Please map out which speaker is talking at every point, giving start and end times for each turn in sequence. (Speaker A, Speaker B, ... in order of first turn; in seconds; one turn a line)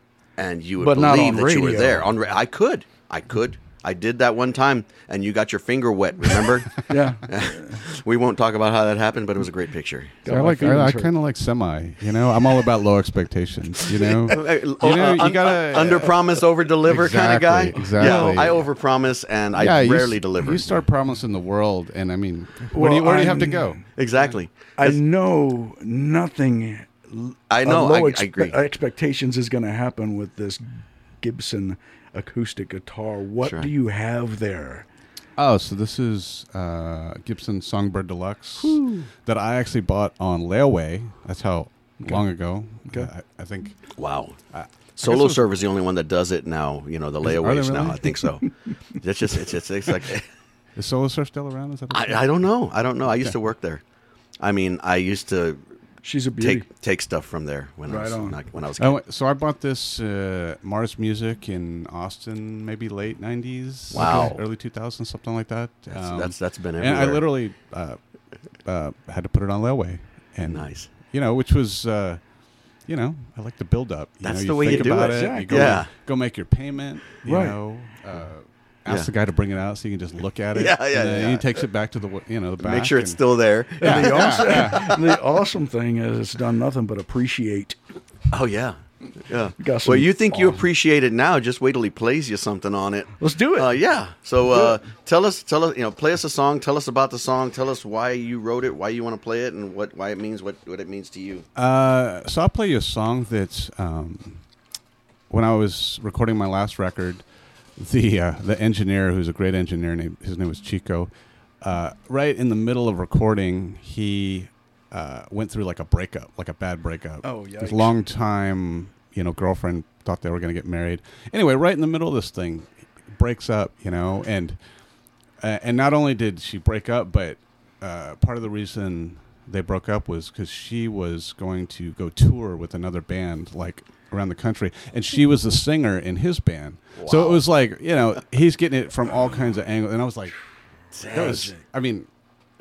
Speaker A: 0.4-10.2
Speaker B: 0.8-2.1
Speaker B: 6.9-7.8
Speaker B: 10.2-11.1
Speaker C: 10.2-16.2
Speaker A: 14.2-20.8
Speaker C: 16.8-18.6
Speaker B: 17.9-18.6
Speaker C: 19.6-23.8
Speaker B: 22.7-23.8
Speaker A: 24.0-25.0
Speaker B: 24.8-30.6
Speaker A: 27.5-28.6
Speaker B: 31.2-34.9
Speaker A: 33.4-33.7
Speaker C: 35.4-43.8
Speaker B: 38.6-39.0
Speaker A: 44.0-44.4
Speaker C: 44.5-45.4
Speaker A: 45.0-50.2
Speaker C: 47.2-48.1
Speaker C: 50.8-52.3
Speaker A: 51.9-53.8
Speaker A: 54.4-55.6
Speaker B: 56.0-56.6
Speaker A: 56.4-59.0
Speaker B: 57.9-58.4
Speaker C: 58.8-68.0
Speaker A: 63.9-64.4
Speaker B: 63.9-64.3
Speaker A: 65.9-67.2
Speaker C: 68.6-72.2
Speaker A: 70.5-70.9
Speaker C: 72.8-83.2
Speaker A: 74.2-75.9
Speaker B: 74.6-75.8
Speaker B: 77.2-77.5
Speaker A: 80.5-81.5
Speaker A: 82.6-85.0
Speaker C: 83.8-85.0
Speaker B: 83.8-87.8
Speaker A: 88.3-101.4
Speaker B: 89.6-90.6
Speaker B: 93.2-93.7
Speaker C: 101.5-104.4
Speaker C: 105.3-107.2
Speaker C: 107.8-111.1
Speaker C: 111.6-124.6
Speaker B: 117.2-117.9
Speaker C: 125.4-140.3
Speaker A: 137.0-137.4
Speaker A: 140.9-141.5
Speaker C: 141.1-142.1
Speaker B: 141.1-141.5